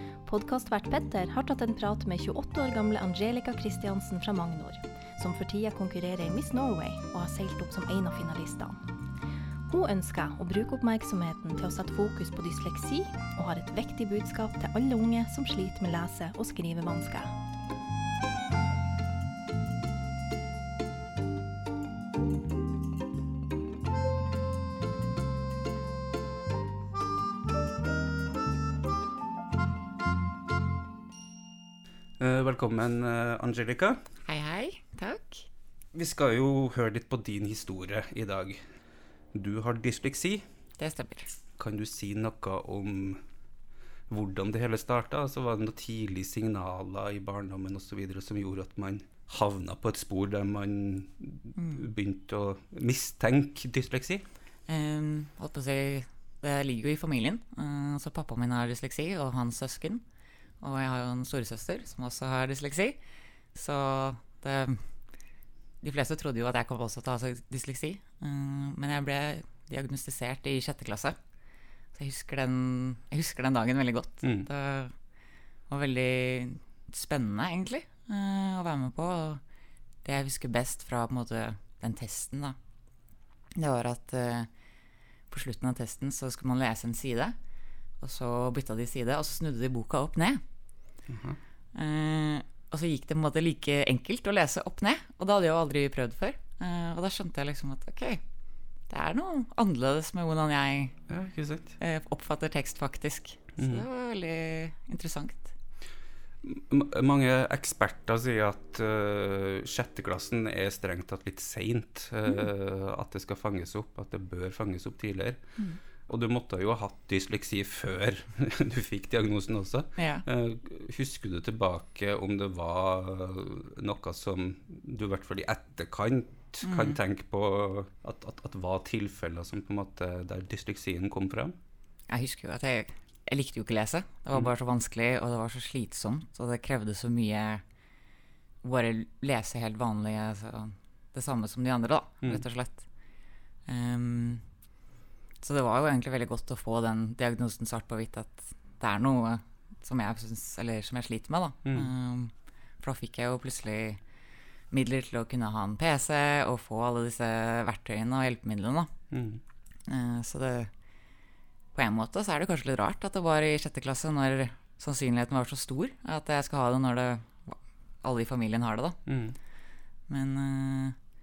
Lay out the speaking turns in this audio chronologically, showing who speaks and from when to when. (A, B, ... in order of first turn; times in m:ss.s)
0:00.2-0:08.8 A
0:09.7-0:17.4 A
0:32.2-0:34.1 B
0:34.2-0:35.4 C
0:35.9-0:38.6 B
0:39.3-0:40.4 B
0:40.8-0:41.3 C
0:41.6-0:43.2 B
0:44.1-0:54.2 B
0:51.6-0:51.8 C
0:54.7-1:00.0 C
1:00.6-1:03.0 C
1:03.5-1:04.8 C
1:05.8-1:11.2 C
1:11.9-1:15.0 C
1:14.2-1:14.5 B
1:15.7-1:19.4 C
1:20.0-1:22.6 C
1:23.6-1:24.5 C
1:25.3-1:27.3 C
1:28.0-1:30.4 C
1:31.1-1:31.4 B
1:31.7-1:38.2 C
1:38.9-1:41.0 C
1:41.1-1:41.8 B
1:41.8-1:45.5 C
1:43.6-1:43.8 B
1:46.4-1:55.4 B
1:56.1-2:11.6 B
2:00.0-2:00.2 C
2:06.6-2:07.0 C
2:12.1-2:17.6 C
2:18.6-2:22.9 C
2:23.7-2:24.4 C
2:25.4-2:34.0 C
2:34.7-2:38.9 C
2:39.1-2:39.4 B
2:39.9-2:40.7 C
2:41.7-2:49.0 C
2:49.0-2:49.4 B
2:50.1-2:51.0 C